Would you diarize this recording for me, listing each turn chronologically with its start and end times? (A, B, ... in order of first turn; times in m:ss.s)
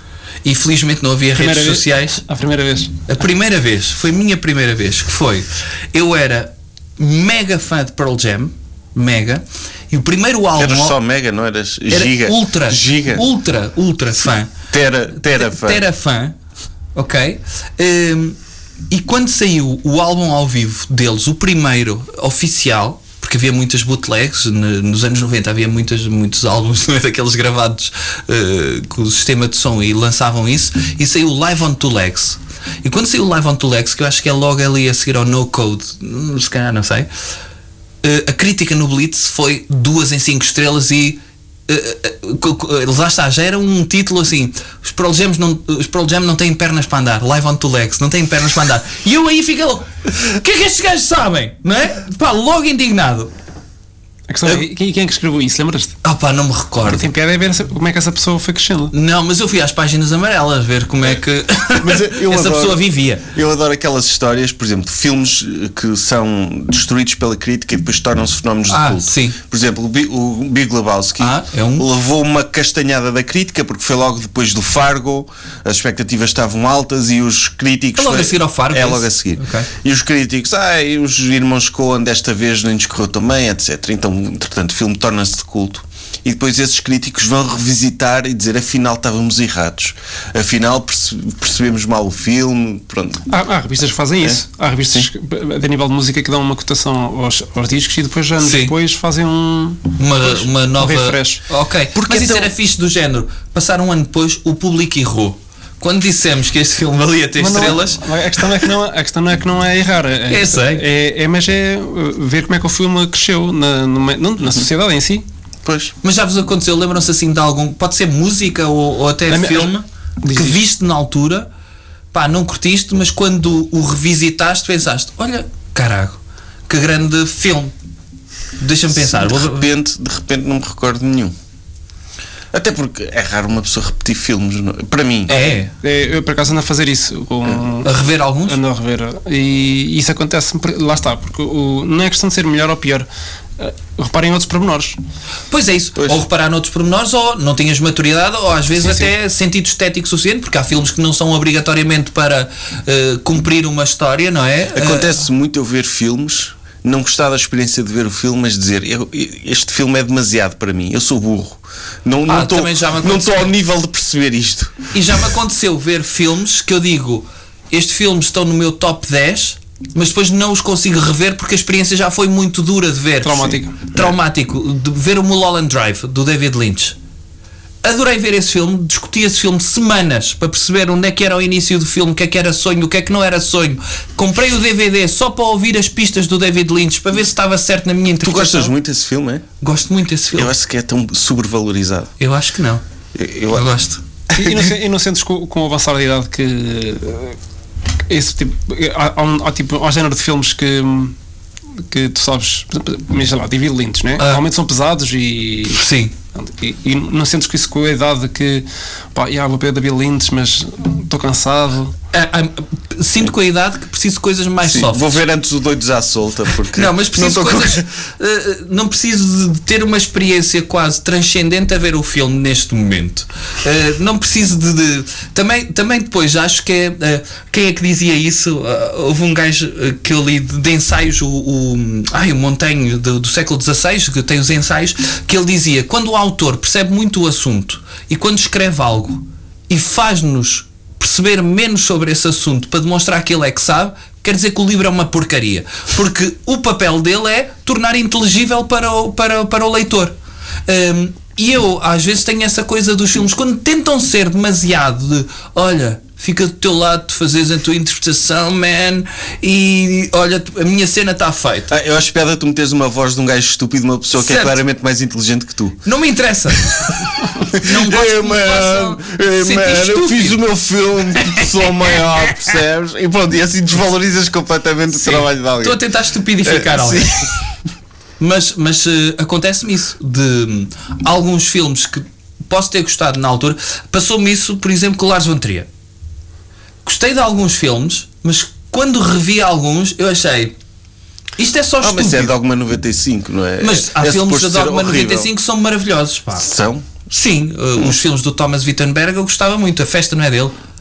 0:00.4-0:02.2 A
0:01.4-0:03.1 B
0:03.1-0:11.0 A
0:10.6-0:13.3 C
0:11.9-0:14.6 A
0:14.7-0:15.8 C
0:15.2-0:16.4 A
0:17.0-0:18.4 A
0:18.9-0:37.1 A
0:38.0-0:53.3 A
0:54.3-0:56.0 B
0:56.0-0:57.0 A
0:56.9-0:58.9 B
0:58.9-1:03.3 A
1:01.8-1:33.3 C
1:08.7-1:09.4 A
1:11.2-1:11.9 A
1:18.0-1:19.7 A
1:33.3-1:41.4 B
1:38.4-1:38.7 A
1:40.0-1:48.0 A
1:42.0-1:42.5 C
1:47.4-1:55.2 B
1:50.3-1:50.8 A
1:55.6-1:55.9 C
1:56.0-2:01.5 A
1:59.3-2:00.6 B
2:02.1-2:07.7 A
2:08.6-2:09.7 A
2:08.9-2:11.3 C
2:12.5-2:15.4 C
2:15.3-2:15.7 A
2:15.8-2:23.1 B
2:17.8-2:18.6 A
2:23.6-2:25.0 B
2:25.5-2:35.3 A
2:28.8-2:29.1 B
2:34.7-2:44.9 C
2:42.3-2:43.5 A
2:44.9-2:57.0 A
2:53.2-2:53.9 B
2:57.8-3:08.7 A
3:08.2-3:09.4 C
3:09.6-3:10.5 A
3:10.3-3:12.1 C
3:12.2-3:12.8 A
3:13.2-3:13.7 C
3:13.5-3:14.0 A
3:14.3-3:14.7 C
3:14.3-3:17.4 B
3:18.1-3:21.2 B
3:21.9-3:25.8 B
3:25.7-3:26.2 A
3:26.3-3:32.0 B
3:32.1-3:35.2 A
3:34.6-3:37.9 C
3:36.7-4:10.1 A
4:10.7-4:21.7 A
4:21.7-4:25.8 C
4:24.2-4:24.6 A
4:25.8-4:26.9 A
4:27.5-4:30.4 A
4:27.5-4:35.8 C
4:35.0-4:37.3 A
4:36.4-4:37.4 C
4:38.2-4:45.7 A
4:46.8-4:50.6 A
4:51.4-4:52.3 A
4:51.8-4:55.3 C
4:53.6-4:56.5 A
4:56.4-4:56.9 C
4:57.1-5:00.6 A